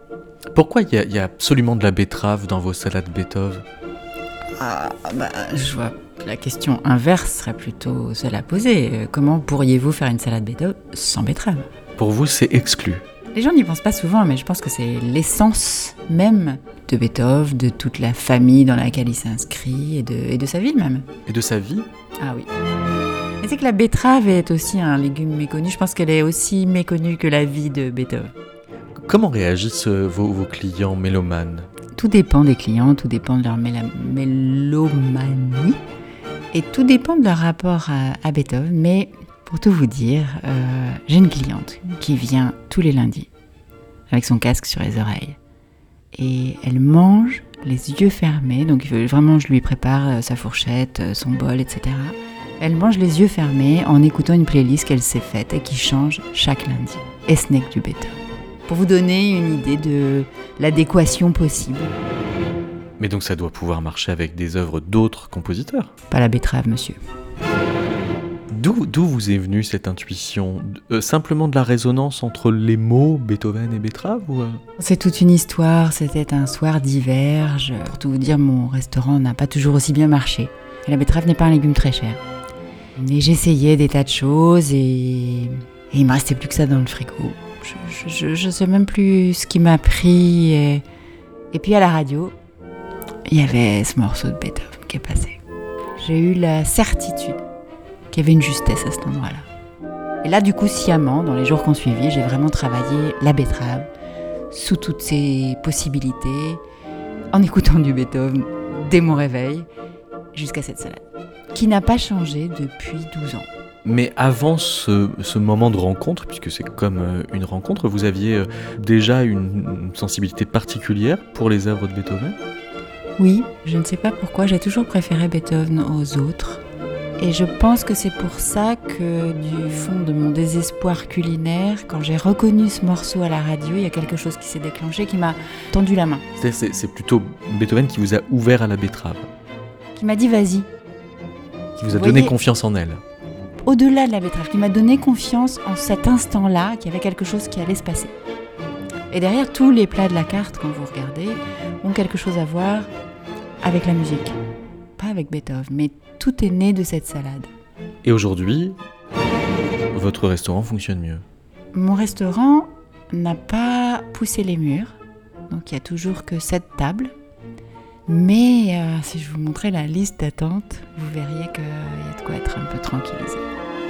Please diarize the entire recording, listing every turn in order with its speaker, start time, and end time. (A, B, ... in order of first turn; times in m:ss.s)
0:00.5-0:03.6 A
0:04.6-0:11.6 B
0:12.0-0:13.0 A
0:13.3-0:21.0 B
0:21.2-0:21.9 A
0:22.2-0:22.5 B
0:23.4-0:28.3 B
0:28.9-0:31.7 A
0:32.0-0:35.8 B
0:36.5-0:43.3 B
0:44.1-0:45.4 B
0:46.1-0:58.2 B
0:58.7-1:01.9 B
1:03.0-1:05.9 A
1:06.1-1:07.0 B
1:08.5-1:14.6 A
1:14.8-1:22.2 B
1:23.0-1:30.8 B
1:31.5-1:32.4 B
1:33.3-1:35.4 B
1:36.0-1:37.4 B
1:38.1-1:39.4 B
1:40.2-1:43.9 B
1:44.5-1:46.6 B
1:47.3-1:49.6 B
1:50.3-1:51.0 B
1:51.5-1:53.5 B
1:53.8-2:02.4 A
2:03.2-2:06.6 B
2:07.2-2:16.2 B
2:16.4-2:19.3 A
2:19.9-2:20.7 B
2:21.8-2:23.0 A
2:21.9-2:22.3 B
2:23.6-2:28.1 B
2:29.1-2:32.9 B
2:33.6-2:34.4 B
2:35.0-2:37.5 B
2:38.0-2:38.8 A
2:39.9-2:41.2 A
2:41.7-2:45.0 B
2:45.5-2:47.1 B
2:48.1-2:53.4 B